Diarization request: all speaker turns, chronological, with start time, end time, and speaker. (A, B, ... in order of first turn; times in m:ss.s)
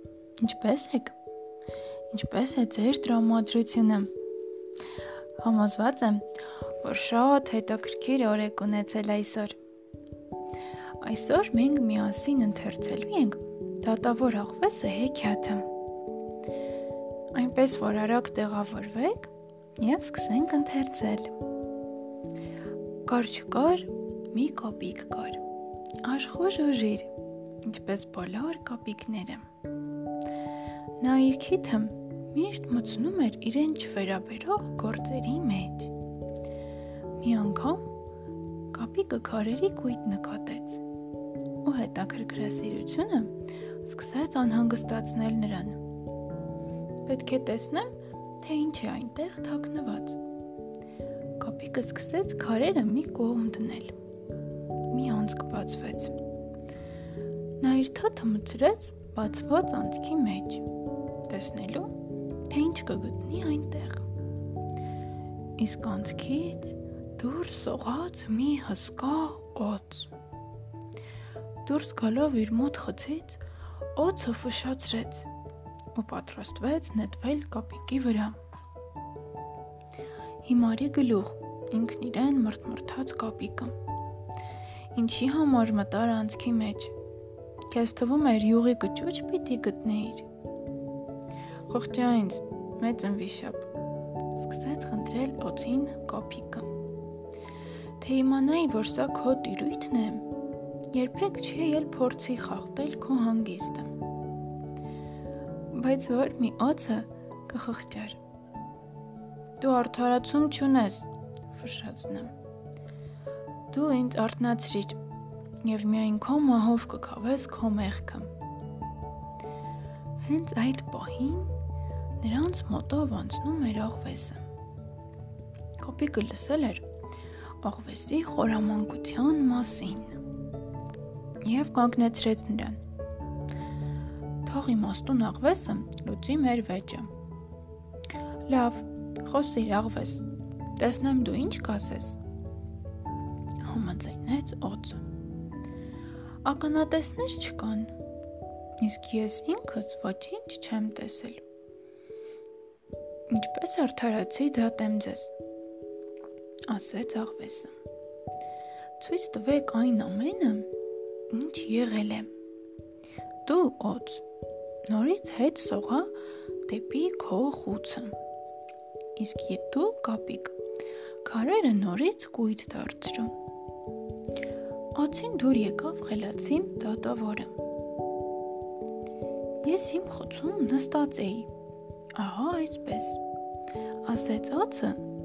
0:00.4-0:01.1 A
0:02.1-0:04.1 A
0:05.4-0:06.3 A
0:06.8-0:09.6 A
0:11.0-0:15.7 A
0:17.3-0:21.3 A
0:23.0-0:25.4 A
0:26.0-0:27.1 A
0:27.6-0:29.5 A
0:31.0-0:35.9 A
0:37.2-0:37.9 A
0:38.7-0:40.8 A
0:41.6-0:45.8 A
0:47.0-0:50.2 A
0:51.4-0:53.9 A
0:54.9-0:56.1 A
0:57.6-1:00.6 A
1:01.3-1:01.9 A
1:02.5-1:04.0 A
1:05.6-1:10.1 A
1:11.6-1:13.4 A
1:13.9-1:15.3 A
1:15.9-1:18.4 A
1:20.4-1:23.7 A
1:24.9-1:26.9 A
1:27.7-1:30.3 A
1:31.7-1:33.7 A
1:34.4-1:36.7 A
1:38.0-1:40.3 A
1:40.9-1:43.9 A
1:45.7-1:48.2 A
1:49.6-1:52.3 A
1:53.7-1:55.0 A
1:55.6-1:58.3 A
2:00.2-2:01.5 A
2:02.2-2:04.4 A
2:05.8-2:06.8 A
2:07.6-2:10.2 A
2:11.4-2:12.8 A
2:14.4-2:17.1 A
2:18.5-2:20.2 A
2:20.8-2:22.2 A
2:23.6-2:25.0 A
2:26.4-2:27.9 A
2:28.8-2:31.4 A
2:33.3-2:35.3 A
2:36.7-2:37.7 A
2:39.0-2:40.7 A
2:41.3-2:42.3 A
2:43.4-2:44.2 A
2:44.9-2:46.1 A
2:46.6-2:48.1 A
2:49.2-2:50.6 A
2:51.2-2:53.3 A
2:54.9-2:57.5 A
2:59.6-3:01.5 A
3:02.1-3:03.2 A
3:04.0-3:05.0 A